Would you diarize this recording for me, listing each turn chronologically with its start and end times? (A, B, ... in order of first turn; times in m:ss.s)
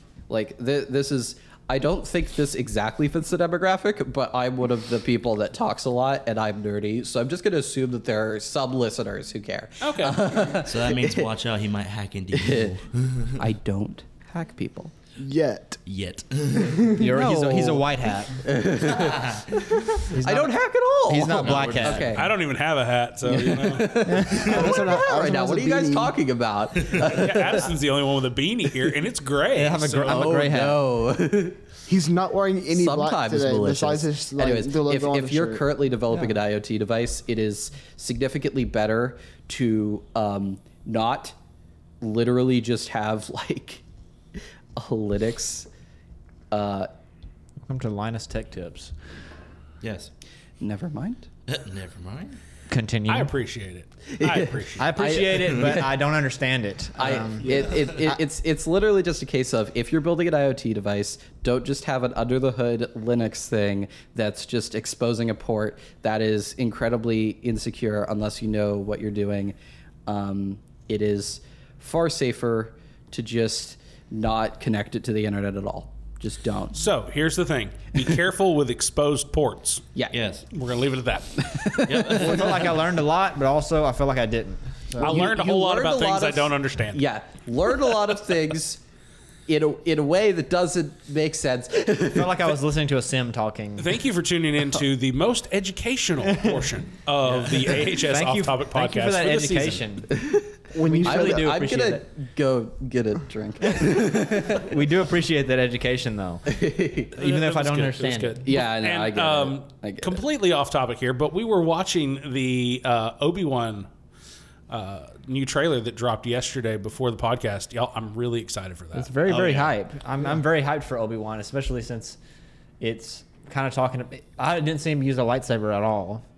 0:00.3-0:11.3 A
0:09.8-0:10.2 B
0:10.6-0:13.4 C
0:12.3-0:12.7 A
0:13.4-0:14.9 A
0:15.2-0:15.8 D
0:15.8-0:16.9 C
0:16.9-0:18.4 E
0:17.0-0:22.3 A
0:19.0-0:19.4 C
0:20.1-0:20.5 E
0:21.0-0:22.2 E
0:21.2-0:22.2 C
0:22.1-0:24.0 B
0:23.2-0:27.7 A
0:24.0-0:24.6 E
0:24.3-0:26.2 D
0:27.0-0:30.3 B
0:29.5-0:30.8 E
0:30.0-0:31.6 A
0:31.9-0:35.6 D
0:32.7-0:41.4 A
0:42.0-0:43.8 A
0:44.8-0:45.7 A
0:46.5-0:46.9 A
0:47.7-0:48.9 E
0:49.8-0:50.1 C
0:50.6-0:51.3 A
0:51.5-0:52.4 C
0:52.7-0:53.3 E
0:53.1-0:54.9 B
0:54.2-0:55.9 A
0:54.8-0:57.5 E
0:55.4-0:55.7 C
0:57.0-1:09.5 A
0:57.4-0:57.9 C
1:10.1-1:16.8 A
1:16.7-1:19.8 B
1:20.1-1:20.5 C
1:20.5-1:21.8 B
1:21.4-1:22.4 A
1:21.8-1:22.8 C
1:22.1-1:24.9 E
1:25.0-1:28.8 A
1:25.0-1:27.0 B
1:29.5-1:32.5 A
1:32.1-1:33.9 E
1:33.8-1:39.8 B
1:37.4-1:40.1 E
1:40.1-1:40.5 A
1:40.7-1:41.6 D
1:40.7-1:42.0 E
1:41.0-1:44.7 A
1:44.5-1:46.5 E
1:46.5-1:47.1 A
1:47.2-1:48.4 E
1:47.2-1:53.9 B
1:48.4-1:50.2 A
1:54.7-1:59.1 B
1:58.9-2:02.2 E
1:59.2-1:59.7 C
2:02.8-2:06.2 E